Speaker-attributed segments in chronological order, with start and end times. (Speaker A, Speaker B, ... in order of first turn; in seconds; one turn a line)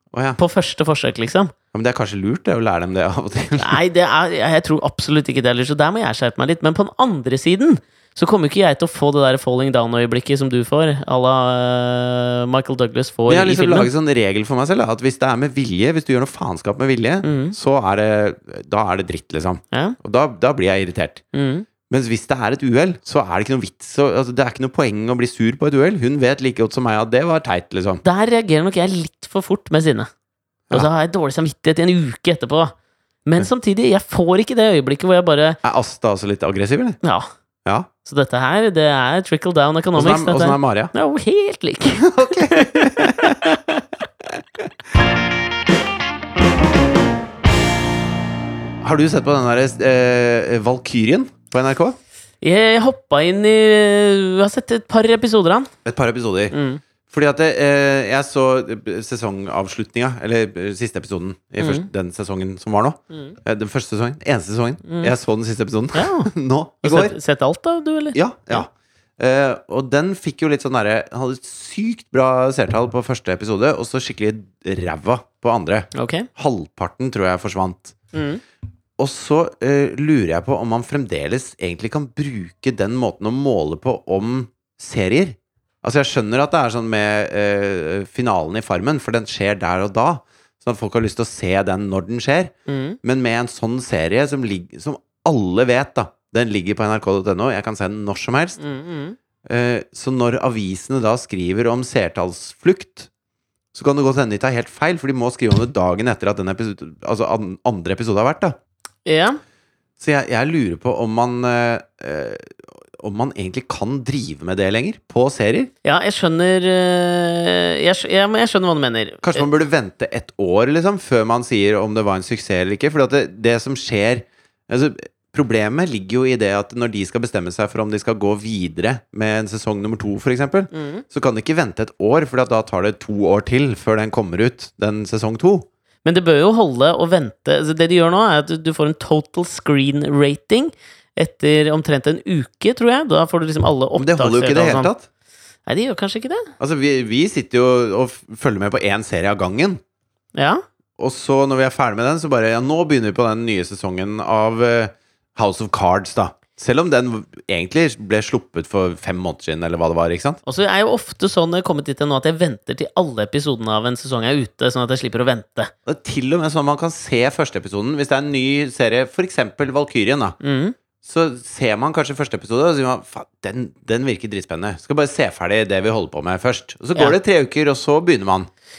Speaker A: 0.1-0.4
Speaker B: 0.4-1.5
Speaker A: 1.7-3.8
Speaker B: 3.6-13.9
Speaker A: 13.3-21.2
Speaker B: 17.2-17.6
Speaker B: 19.7-20.0
Speaker B: 21.3-21.7
Speaker A: 21.9-28.0
Speaker B: 28.0-30.1
Speaker B: 30.7-32.7
Speaker B: 33.3-35.6
Speaker A: 35.6-37.0
Speaker B: 37.0-37.3
Speaker B: 38.0-43.9
Speaker A: 40.0-40.9
Speaker A: 41.9-43.6
Speaker A: 48.8-52.0
Speaker B: 52.4-55.7
Speaker A: 55.9-56.5
Speaker B: 56.5-56.8
Speaker A: 57.1-67.2
Speaker B: 61.6-61.9
Speaker B: 64.8-65.1
Speaker B: 65.9-66.3
Speaker B: 66.8-68.7
Speaker A: 68.1-78.0
Speaker B: 75.9-76.3
Speaker B: 78.1-78.4
Speaker A: 79.0-98.6
Speaker B: 92.7-93.0
Speaker B: 98.6-99.2
Speaker A: 99.5-103.1
Speaker A: 103.7-108.5
Speaker B: 109.1-109.4
Speaker A: 110.0-115.7
Speaker B: 115.8-119.5
Speaker A: 119.2-135.7
Speaker B: 130.7-131.0
Speaker B: 136.1-144.9
Speaker A: 144.0-145.1
Speaker B: 145.7-146.5
Speaker A: 146.6-149.8
Speaker B: 150.3-150.6
Speaker A: 151.0-160.4
Speaker B: 160.5-165.7
Speaker A: 165.9-170.4
Speaker B: 170.4-170.8
Speaker A: 171.0-178.5